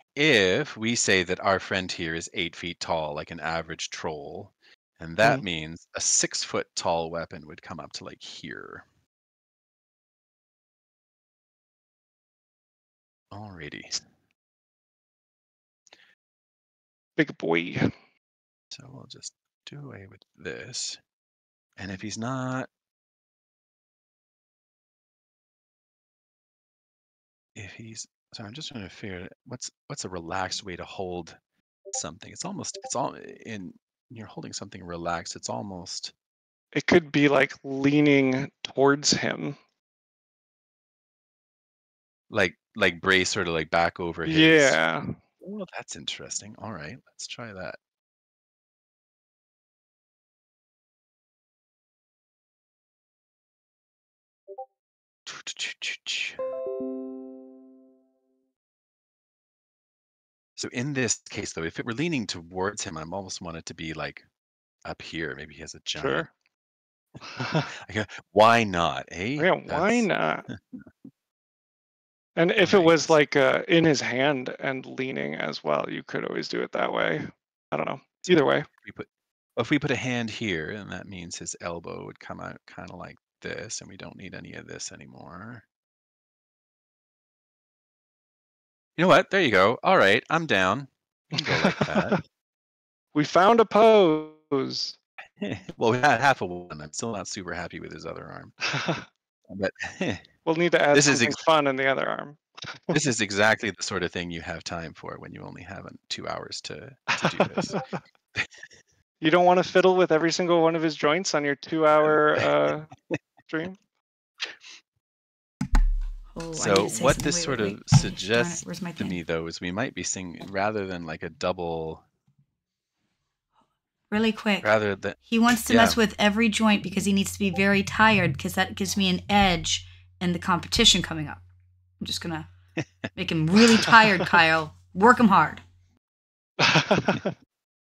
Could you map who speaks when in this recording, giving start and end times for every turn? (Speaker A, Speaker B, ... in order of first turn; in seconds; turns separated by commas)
Speaker A: 0.1-8.8, Speaker A: 13.3-14.0, Speaker B: 17.2-17.9, Speaker A: 18.7-21.0, Speaker A: 21.8-22.7, Speaker A: 27.5-31.4, Speaker A: 31.9-36.1, Speaker B: 36.7-39.6, Speaker A: 42.3-44.8, Speaker B: 44.2-45.1, Speaker A: 45.4-47.8, Speaker A: 55.2-56.4, Speaker A: 60.6-64.2, Speaker A: 64.8-66.3, Speaker B: 66.0-66.3, Speaker B: 67.3-67.7, Speaker A: 67.7-70.8, Speaker B: 69.4-70.5, Speaker B: 72.3-78.7, Speaker A: 72.6-73.2, Speaker A: 78.2-85.6, Speaker A: 89.0-92.2, Speaker B: 91.3-92.2, Speaker B: 93.1-95.0, Speaker A: 95.4-98.5, Speaker B: 98.6-99.0, Speaker A: 99.5-100.2, Speaker B: 100.5-102.9, Speaker A: 100.9-101.4, Speaker A: 102.9-107.8, Speaker B: 107.2-108.0, Speaker B: 109.2-112.9, Speaker A: 112.0-113.1, Speaker B: 113.5-113.8, Speaker C: 116.3-119.2, Speaker A: 116.5-122.0, Speaker C: 124.1-124.7, Speaker A: 124.6-126.0, Speaker C: 125.3-131.4, Speaker C: 132.0-132.5, Speaker C: 133.1-135.6, Speaker B: 136.6-137.3